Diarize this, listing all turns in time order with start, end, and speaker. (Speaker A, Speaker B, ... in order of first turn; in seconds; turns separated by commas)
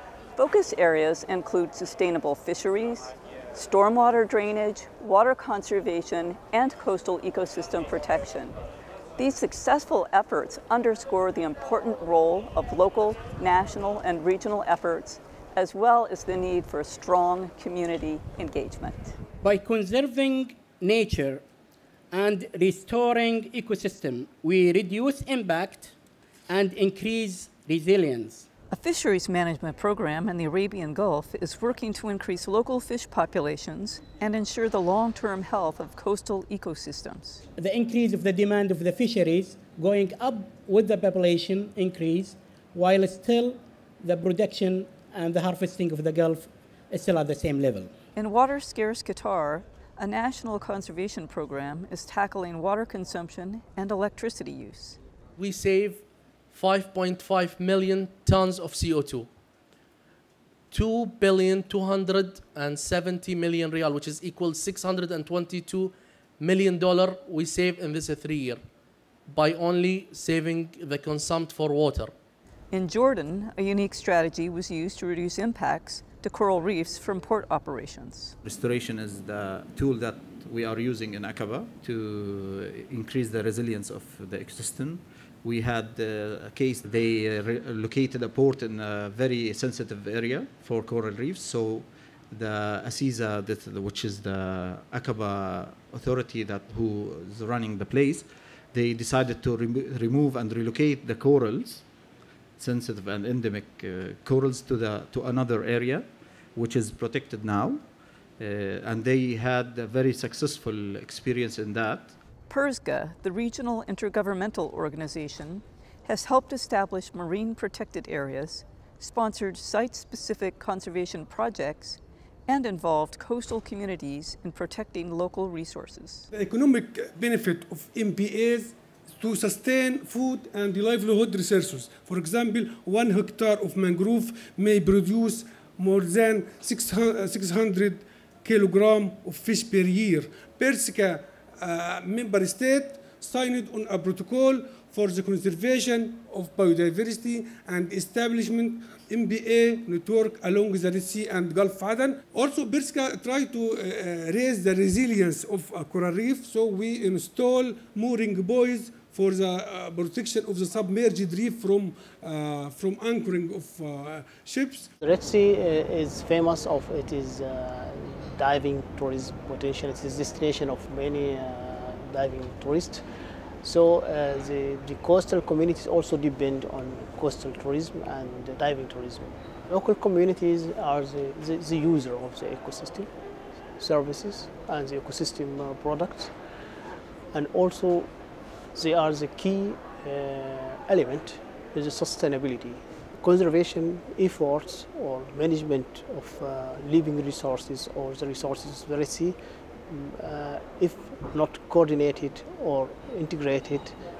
Speaker A: 0.3-8.5, Speaker A: 9.2-19.2, Speaker B: 19.4-21.4, Speaker B: 22.1-25.9, Speaker B: 26.5-28.4, Speaker A: 28.7-37.4, Speaker B: 37.6-47.9, Speaker A: 48.1-55.0, Speaker C: 55.4-59.3, Speaker C: 60.7-68.6, Speaker C: 69.3-72.1, Speaker A: 72.7-78.3, Speaker D: 78.4-101.8, Speaker D: 102.6-107.8, Speaker D: 108.4-112.1, Speaker A: 112.5-126.3, Speaker E: 126.3-164.9, Speaker F: 165.0-173.0, Speaker F: 173.6-183.1, Speaker F: 183.8-186.3, Speaker F: 187.3-188.1, Speaker F: 188.7-199.3, Speaker F: 199.9-204.0